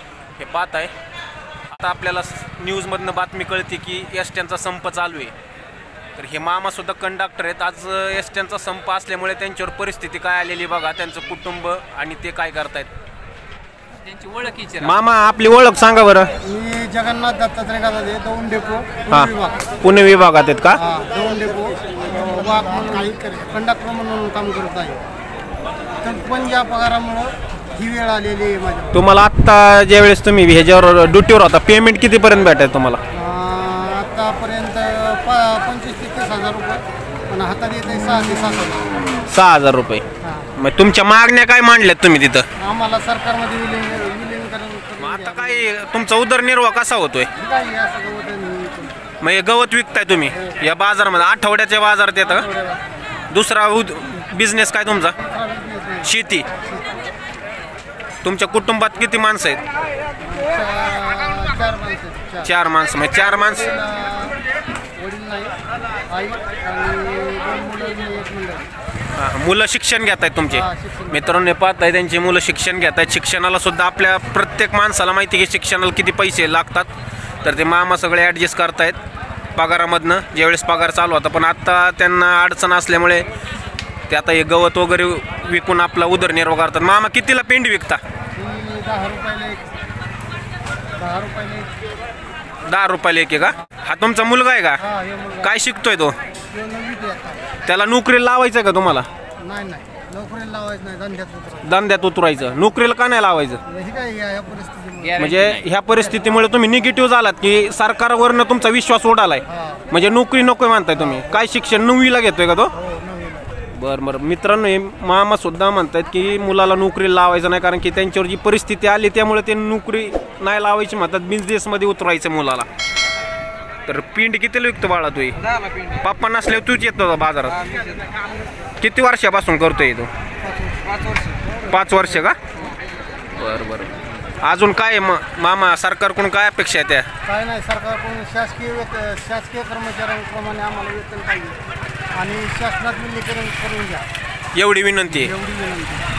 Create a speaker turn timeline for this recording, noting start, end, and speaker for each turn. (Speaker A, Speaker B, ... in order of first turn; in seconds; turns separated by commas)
Speaker A: 0.4-0.9, Speaker A: 1.7-5.3, Speaker A: 6.2-12.9, Speaker B: 14.0-14.8, Speaker A: 14.8-16.3, Speaker C: 16.4-19.6, Speaker A: 19.1-20.8, Speaker C: 20.7-25.0, Speaker C: 26.0-29.0, Speaker A: 28.9-33.0, Speaker C: 33.1-38.9, Speaker A: 39.3-40.0, Speaker C: 40.2-40.5, Speaker A: 40.5-42.5, Speaker C: 42.6-45.7, Speaker A: 45.0-47.3, Speaker C: 47.4-49.0, Speaker A: 49.2-52.5, Speaker C: 52.2-52.8, Speaker A: 53.3-55.2, Speaker C: 55.1-57.0, Speaker A: 56.0-56.5, Speaker A: 58.2-59.6, Speaker C: 60.2-62.5, Speaker A: 62.4-63.7, Speaker C: 63.5-64.4, Speaker C: 65.0-65.5, Speaker C: 66.1-68.7, Speaker A: 69.1-76.9, Speaker C: 70.5-71.2, Speaker A: 77.4-79.0, Speaker A: 79.5-83.2, Speaker A: 84.1-88.0, Speaker C: 88.3-89.6, Speaker C: 91.0-91.7, Speaker A: 92.7-94.8, Speaker C: 94.8-95.5, Speaker A: 95.4-96.2, Speaker C: 96.5-97.5, Speaker A: 97.6-99.1, Speaker C: 99.4-101.7, Speaker A: 101.6-103.6, Speaker C: 103.7-105.3, Speaker A: 105.1-112.7, Speaker C: 109.5-109.9, Speaker C: 111.0-111.4, Speaker C: 112.7-113.5, Speaker A: 113.7-122.7, Speaker A: 123.9-127.7, Speaker B: 125.5-125.8, Speaker B: 127.7-128.2, Speaker A: 128.8-130.1, Speaker C: 130.4-132.0, Speaker B: 130.8-131.4, Speaker A: 131.6-132.4, Speaker A: 133.4-137.1, Speaker C: 137.2-141.6, Speaker C: 142.2-144.1, Speaker A: 144.5-145.3, Speaker C: 145.1-146.0